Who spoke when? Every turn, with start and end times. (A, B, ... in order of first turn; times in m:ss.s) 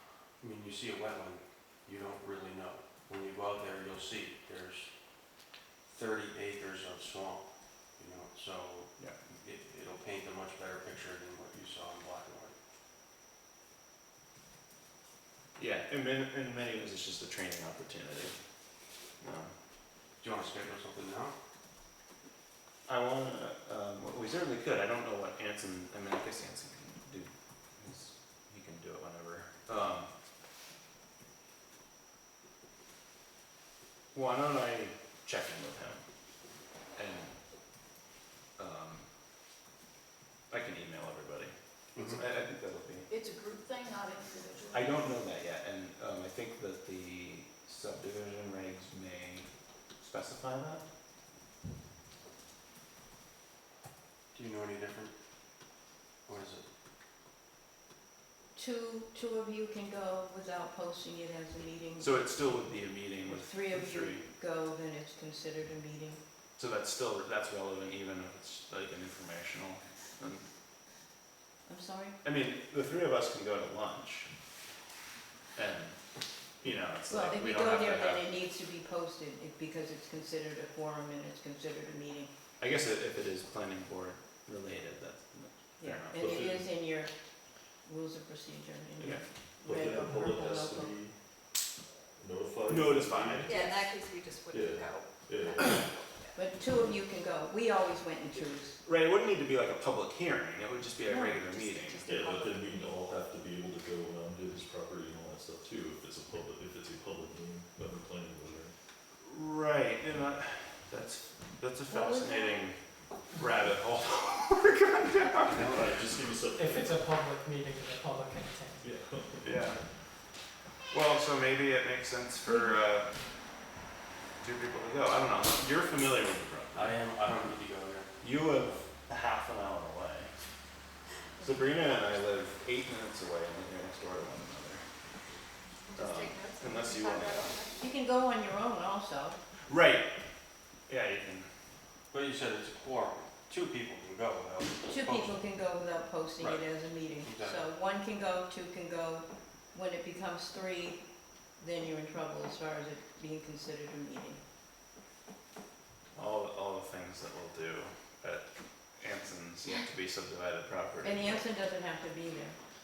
0:00.4-0:04.9 A
0:05.8-0:12.5 A
0:15.6-0:18.4 B
0:19.2-0:19.5 B
0:20.2-0:21.3 A
0:22.8-0:30.1 B
0:34.1-0:36.0 B
0:36.9-0:37.3 B
0:38.6-0:39.1 B
0:40.5-0:43.1 B
0:41.9-0:42.2 A
0:44.7-0:50.8 B
0:54.3-0:55.1 A
0:56.2-0:56.6 A
0:58.5-1:02.2 C
1:02.0-1:04.2 B
1:03.2-1:06.2 C
1:06.6-1:10.4 B
1:11.6-1:12.2 C
1:12.2-1:14.3 B
1:15.5-1:16.0 B
1:16.6-1:18.3 B
1:17.1-1:22.3 C
1:22.6-1:26.2 B
1:25.8-1:27.1 C
1:26.1-1:26.7 D
1:27.8-1:31.0 C
1:29.0-1:29.2 B
1:29.6-1:31.2 D
1:32.2-1:33.9 D
1:32.7-1:33.7 B
1:33.4-1:36.4 E
1:34.5-1:35.9 D
1:36.3-1:38.8 C
1:38.8-1:42.1 B
1:41.1-1:41.4 C
1:41.4-1:42.9 E
1:42.1-1:48.7 D
1:49.2-1:56.1 B
1:51.9-1:52.6 C
1:55.5-1:57.1 D
1:56.6-1:58.9 F
1:58.8-1:59.7 D
1:59.4-1:59.8 B
2:00.9-2:03.2 B
2:02.4-2:02.7 C
2:04.4-2:07.1 B
2:06.7-2:08.8 A
2:08.2-2:10.3 B
2:11.4-2:14.8 B
2:15.9-2:18.0 E
2:15.9-2:17.7 B
2:17.8-2:19.4 C
2:19.7-2:20.1 B
2:20.8-2:21.5 B
2:22.1-2:25.4 A
2:24.8-2:31.0 C
2:26.4-2:27.6 A
2:31.6-2:34.4 C
2:36.1-2:41.4 B
2:41.0-2:42.6 C